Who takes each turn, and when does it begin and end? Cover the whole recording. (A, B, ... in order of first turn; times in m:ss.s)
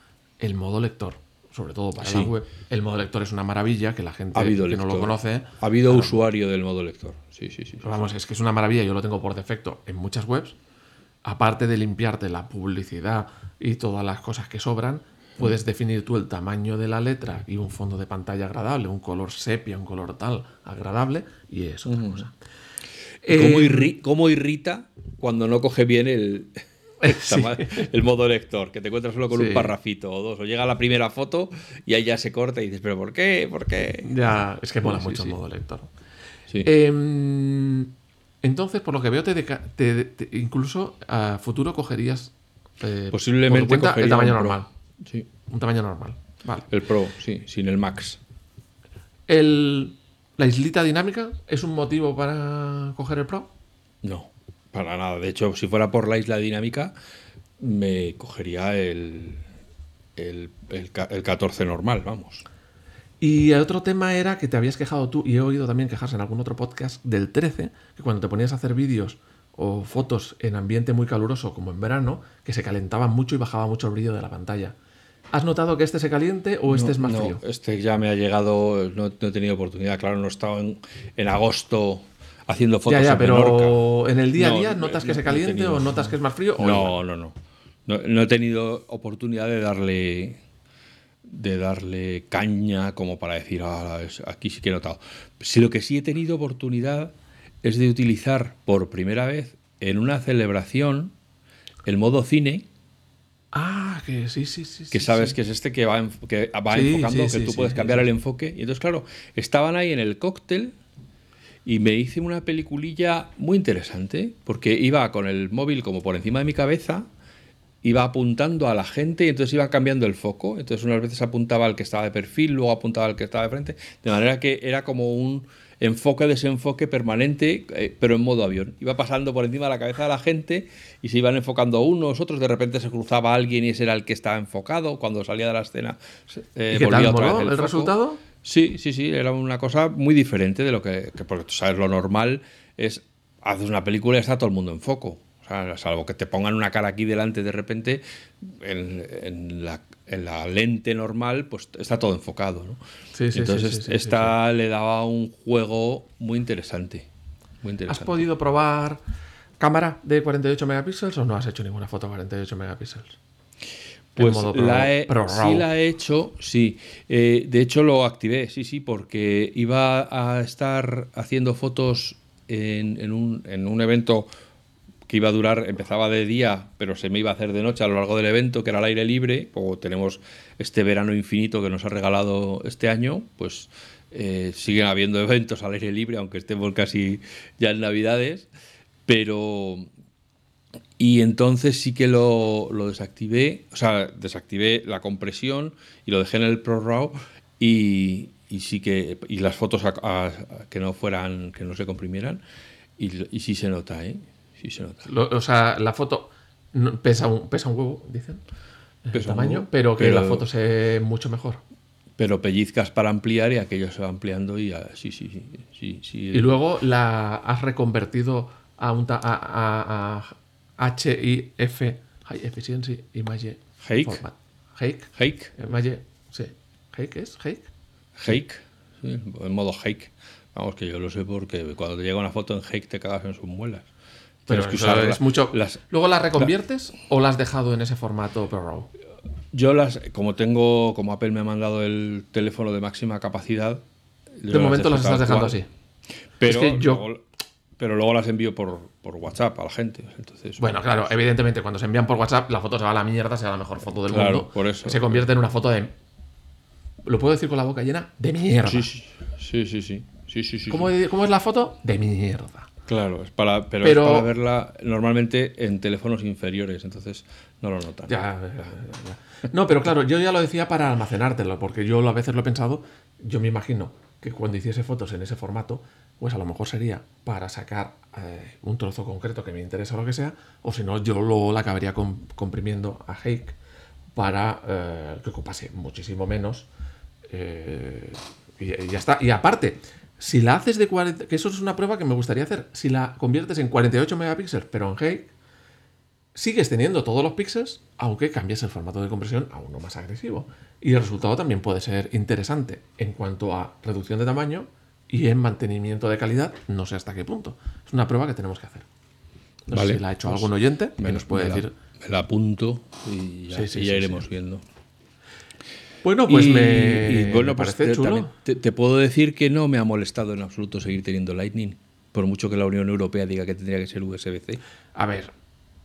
0:00.4-0:06.2 A
0:02.0-0:02.3 B
0:04.3-0:08.1 B
0:07.8-0:10.6 A
0:11.2-0:22.3 A
0:21.9-0:22.2 B
0:23.2-0:23.9 A
0:23.3-0:34.1 B
0:27.0-0:27.9 A
0:29.3-0:29.7 A
0:34.0-0:35.9 A
0:34.8-0:35.3 B
0:36.6-0:44.7 A
0:43.1-0:45.3 B
0:45.5-0:46.7 A
0:46.7-0:48.2 B
0:49.3-0:53.5 A
0:54.0-0:56.9 B
0:57.6-0:59.4 B
1:00.2-1:02.4 B
1:03.2-1:14.8 A
1:15.3-1:17.4 A
1:16.7-1:23.8 B
1:22.9-1:26.9 A
1:24.3-1:30.4 B
1:31.2-1:41.1 B
1:41.8-1:42.7 B
1:43.5-1:45.4 A
1:44.9-1:50.8 B
1:46.7-1:48.0 A
1:51.7-1:57.1 B
1:57.8-2:32.8 B
2:16.7-2:18.2 A
2:33.1-2:34.4 A
2:33.3-2:37.1 B
2:37.6-2:38.3 B
2:37.9-2:39.0 A
2:39.6-2:43.2 A
2:44.2-2:54.3 B
2:44.2-2:45.7 A
2:55.1-3:08.5 B
3:09.1-3:09.9 B
3:11.0-3:22.4 B
3:23.0-3:25.1 B
3:25.0-3:28.4 A
3:29.0-3:31.6 A
3:29.1-3:30.5 B
3:32.2-3:36.5 B
3:36.3-3:47.7 A
3:43.8-3:44.2 B
3:45.2-3:45.6 B
3:48.2-3:53.9 B
3:54.5-3:55.8 B
3:54.5-3:58.9 A
3:59.5-4:03.8 B
4:04.4-4:05.6 B
4:04.5-4:05.7 A
4:06.4-4:07.2 B
4:06.4-4:07.0 A
4:07.8-4:10.8 B
4:10.6-4:15.9 A
4:14.1-4:15.2 B
4:17.0-4:18.9 A
4:18.6-4:20.9 B
4:20.7-4:22.7 A
4:22.9-4:28.2 B
4:23.8-4:24.3 A
4:28.1-4:43.6 A
4:44.1-4:46.7 A
4:47.3-4:55.3 A
4:56.4-5:08.9 A
5:09.7-5:11.7 A
5:09.7-5:14.6 B
5:13.5-5:14.2 A
5:16.0-5:18.3 A
5:16.3-5:24.6 B
5:24.9-5:25.3 A